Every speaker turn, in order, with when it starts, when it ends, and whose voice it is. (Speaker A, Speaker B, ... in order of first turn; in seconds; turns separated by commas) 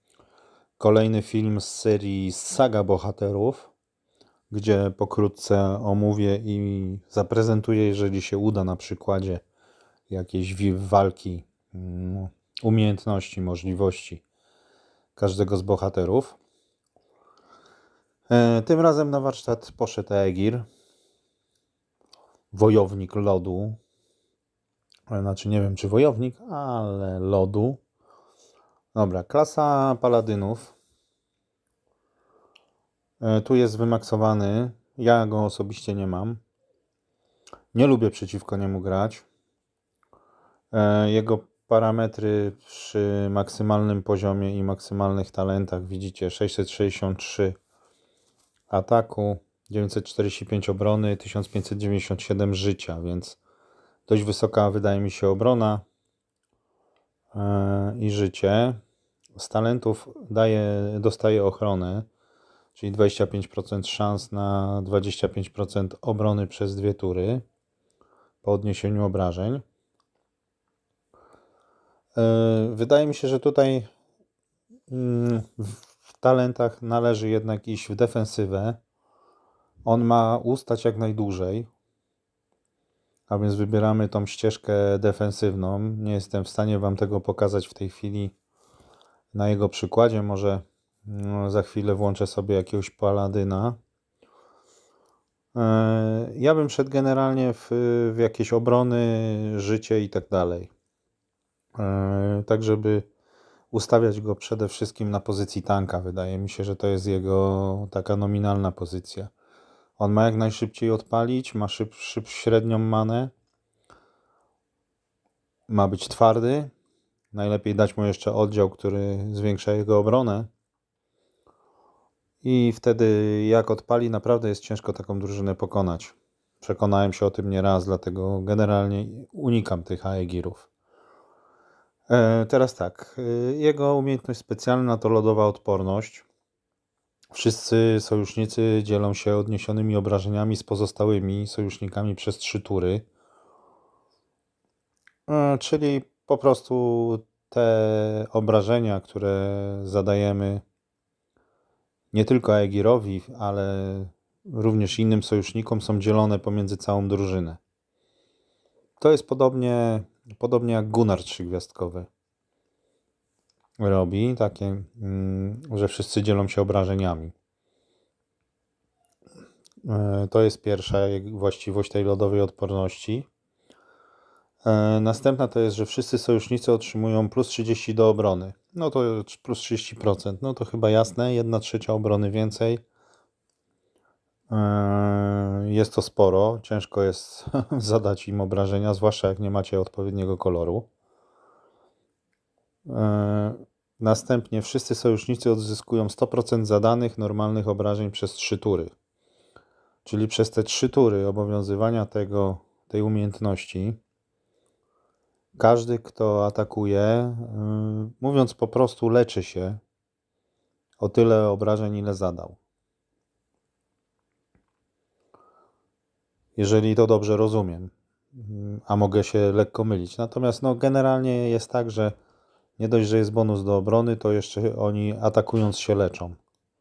Speaker A: 0.8-3.7, Speaker A: 4.5-9.4, Speaker A: 10.1-14.2, Speaker A: 15.2-16.4, Speaker A: 18.3-20.6, Speaker A: 22.5-23.8, Speaker A: 25.1-27.8, Speaker A: 28.9-30.7, Speaker A: 33.2-36.4, Speaker A: 37.7-39.2, Speaker A: 40.7-47.5, Speaker A: 48.7-53.4, Speaker A: 54.1-55.8, Speaker A: 57.3-58.8, Speaker A: 59.4-62.1, Speaker A: 62.7-67.4, Speaker A: 68.4-69.6, Speaker A: 72.2-73.9, Speaker A: 74.9-78.8, Speaker A: 79.8-81.7, Speaker A: 83.3-88.3, Speaker A: 89.3-93.8, Speaker A: 95.5-100.7, Speaker A: 101.8-103.1, Speaker A: 103.7-109.3, Speaker A: 110.0-113.3, Speaker A: 115.7-116.7, Speaker A: 117.3-120.5, Speaker A: 122.4-130.7, Speaker A: 132.1-136.2, Speaker A: 137.3-143.0, Speaker A: 145.3-150.6, Speaker A: 152.1-157.6, Speaker A: 159.0-162.1, Speaker A: 163.8-167.3, Speaker A: 169.8-173.3, Speaker A: 174.6-182.8, Speaker A: 184.5-190.9, Speaker A: 192.8-198.9, Speaker A: 200.0-204.0, Speaker A: 205.6-209.8, Speaker A: 211.0-212.6, Speaker A: 216.6-222.1, Speaker A: 222.8-226.4